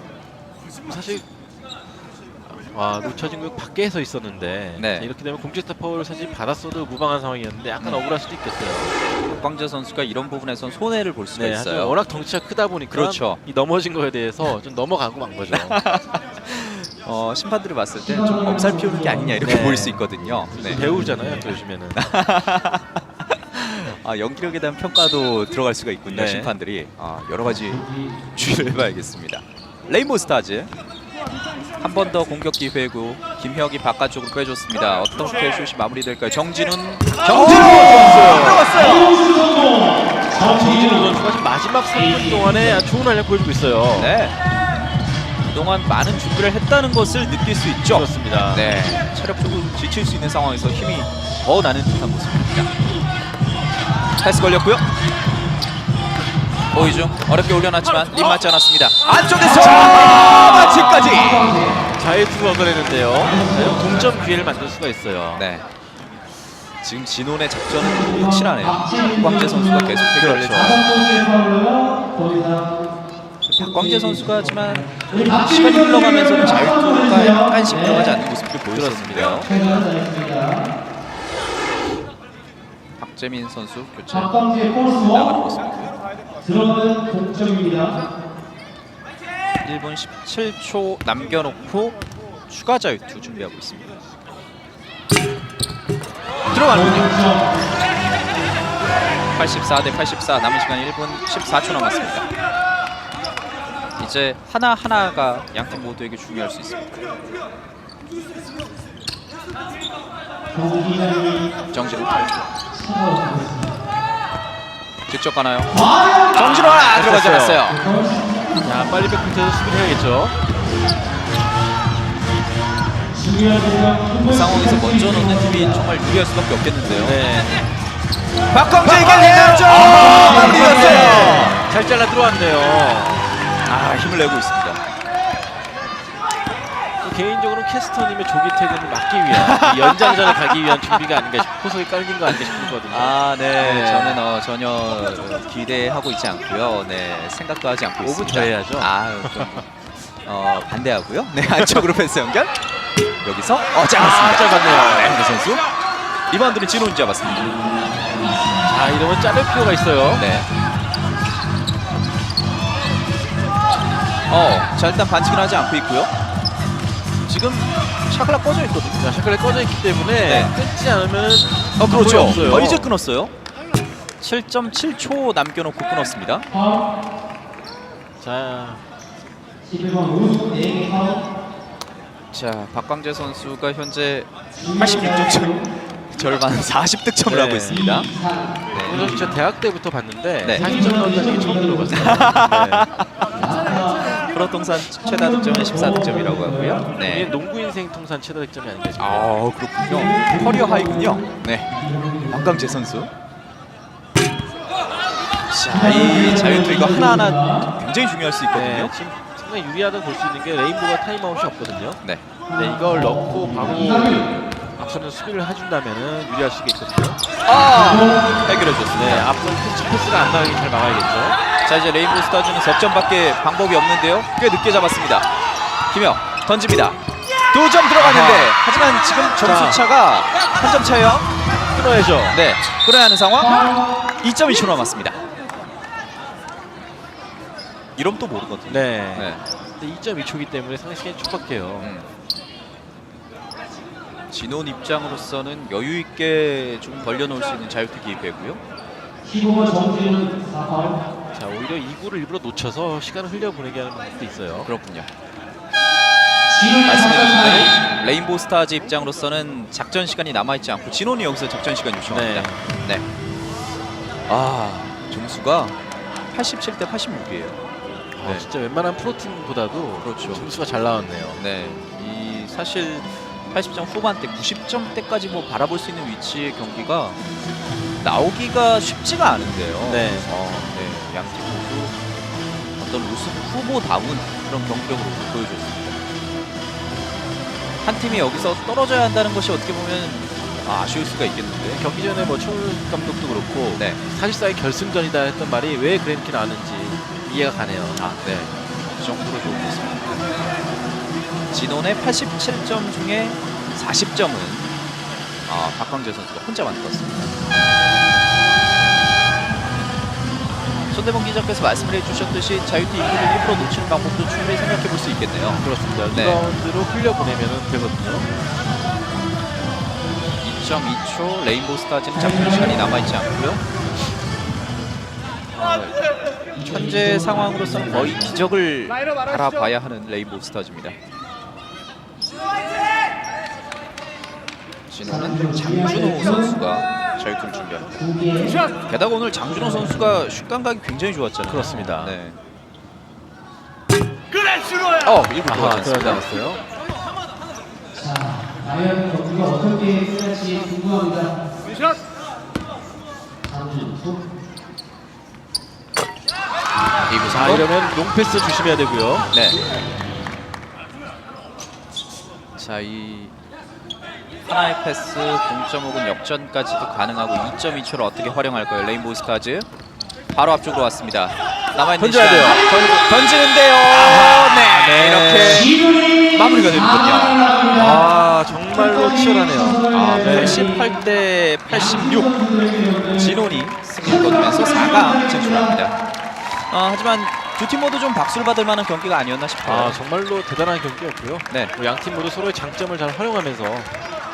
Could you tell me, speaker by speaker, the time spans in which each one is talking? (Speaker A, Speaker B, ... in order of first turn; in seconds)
Speaker A: 0.8-1.2, 2.5-8.9, 11.3-15.8, 19.4-22.0, 26.1-26.5, 40.3-44.1, 47.9-48.7, 61.9-65.5, 70.2-70.6, 78.7-79.5, 116.4-117.6, 118.6-120.3, 127.0-127.7, 128.8-133.3, 137.0-144.2, 148.0-149.6, 153.9-155.2, 158.6-160.3, 169.0-172.9, 178.2-178.8, 187.2-187.8, 188.8-192.9, 197.0-199.3, 208.5-212.0, 212.5-217.2, 218.9-221.4, 228.0-228.5, 229.4-229.8, 231.7-232.4, 238.7-241.9, 251.3-254.7, 262.1-262.6, 268.1-271.4, 279.9-280.3, 291.7-298.1, 315.5-318.3, 341.5-342.1, 345.4-346.6, 357.3-359.3, 372.0-372.7, 374.6-375.7, 377.7-380.6, 389.6-393.9
Speaker B: 4.8-5.1, 9.2-12.0, 12.9-13.4, 15.5-20.8, 21.9-27.8, 28.3-30.7, 31.8-39.2, 43.9-44.4, 45.5-52.7, 54.2-54.9, 56.7-61.6, 65.3-65.7, 66.8-70.8, 73.5-79.5, 83.0-86.0, 89.6-94.0, 96.5-97.1, 99.3-102.3, 104.0-107.1, 111.7-112.5, 115.1-115.8, 116.3-117.8, 124.2-127.2, 128.5-131.6, 133.6-134.8, 139.3-140.9, 142.3-152.6, 153.2-155.6, 156.3-157.6, 160.2-160.5, 164.3-166.1, 167.2-169.1, 170.2-170.5, 171.8-173.3, 174.2-176.5, 182.3-185.6, 186.1-188.1, 188.7-189.1, 191.9-197.3, 199.0-201.8, 202.3-203.1, 205.5-208.9, 217.4-219.3, 221.6-225.3, 225.9-227.0, 227.5-231.3, 232.3-235.2, 237.9-239.4, 241.8-242.1, 244.3-248.6, 254.6-255.1, 256.8-263.0, 264.3-265.8, 266.3-267.6, 268.2-268.5, 270.0-270.4, 271.4-277.2, 278.0-282.0, 282.8-286.0, 287.8-291.8, 298.0-300.5, 301.5-304.7, 305.4-307.3, 310.9-316.4, 320.4-323.6, 325.5-326.0, 326.6-331.0, 334.9-337.9, 338.9-342.4, 345.0-346.2, 357.1-357.6, 359.3-359.6, 362.6-363.3, 364.4-369.7, 370.3-375.7, 376.3-377.4, 379.9-382.3, 383.1-390.0
Speaker C: 18.0-19.8, 20.6-21.5, 27.4-28.9, 37.5-41.2, 41.9-42.8, 59.8-61.9, 63.2-63.9, 67.7-72.9, 73.5-78.2, 79.4-80.7, 84.1-85.3, 86.4-88.1, 96.7-97.5, 110.5-111.5, 112.7-113.8, 115.7-116.4, 117.7-118.6, 123.1-125.8, 129.9-131.4, 176.5-176.8, 179.6-181.2, 184.5-185.6, 187.7-189.3, 190.6-192.3, 193.3-194.2, 194.9-196.8, 199.8-202.8, 205.7-207.7, 212.5-214.3, 217.7-218.3, 233.4-233.8, 249.2-251.0, 256.5-257.7, 322.1-323.1, 326.5-328.5, 335.1-336.6, 337.9-338.6, 339.5-340.2, 347.9-351.4, 353.4-354.2, 375.8-376.3, 377.1-377.9, 378.7-380.9, 381.7-383.4, 384.0-385.7